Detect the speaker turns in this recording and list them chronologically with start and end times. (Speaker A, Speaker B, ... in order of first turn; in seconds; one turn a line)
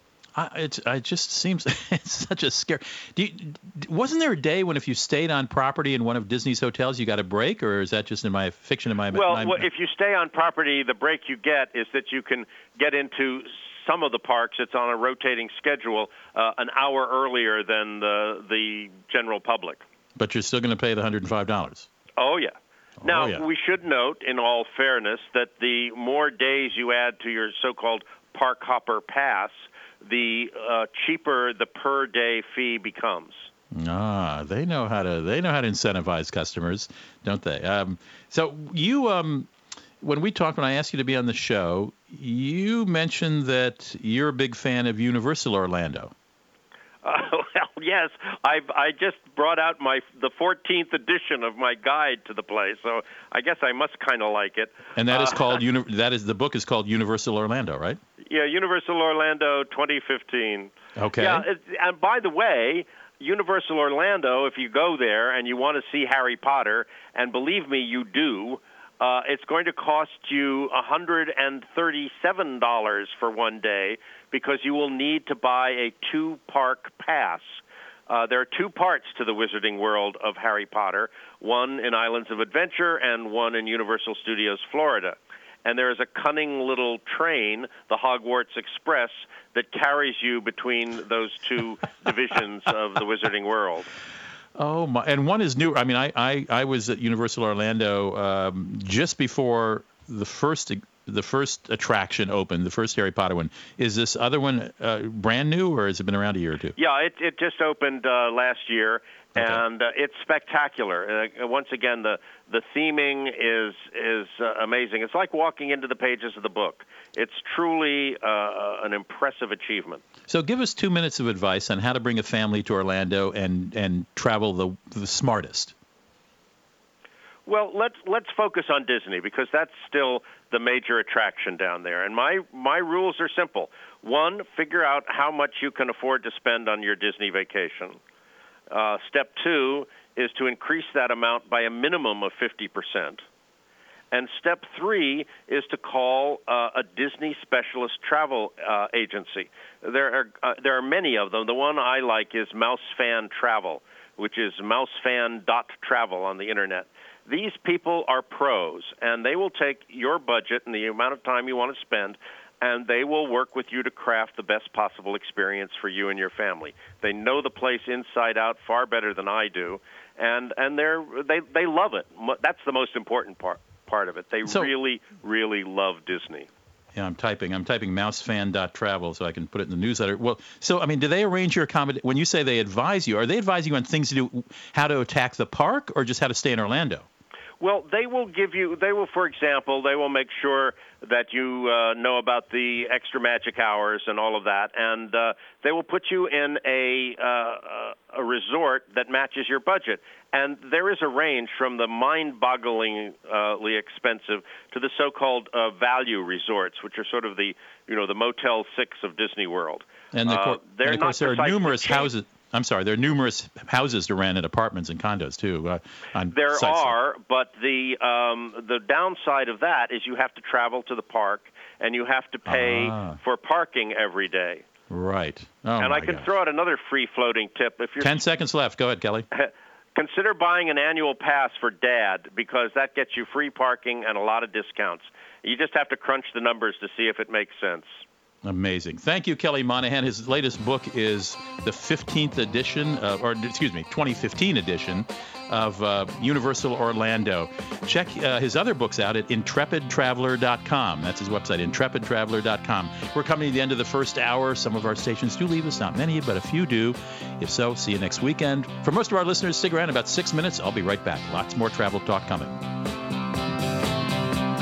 Speaker A: 0.4-9.7
Speaker B: 9.1-19.8
Speaker A: 20.2-21.9
Speaker B: 22.2-33.5
Speaker A: 23.0-23.4
Speaker A: 33.7-39.5
Speaker A: 40.0-46.1
Speaker B: 47.0-55.6
Speaker A: 55.0-58.0
Speaker B: 58.3-93.9
Speaker A: 61.0-61.5
Speaker A: 94.6-106.8
Speaker B: 106.8-120.0
Speaker A: 109.4-109.6
Speaker A: 120.3-125.7
Speaker B: 127.5-138.0
Speaker B: 138.7-143.2
Speaker B: 144.1-176.5
Speaker A: 174.5-174.7
Speaker A: 176.9-187.1
Speaker B: 187.6-212.1
Speaker A: 210.1-216.9
Speaker B: 216.3-224.7
Speaker A: 222.5-223.2
Speaker A: 224.9-226.3
Speaker B: 225.8-228.2
Speaker A: 228.0-229.3
Speaker B: 229.3-238.0
Speaker A: 238.4-262.6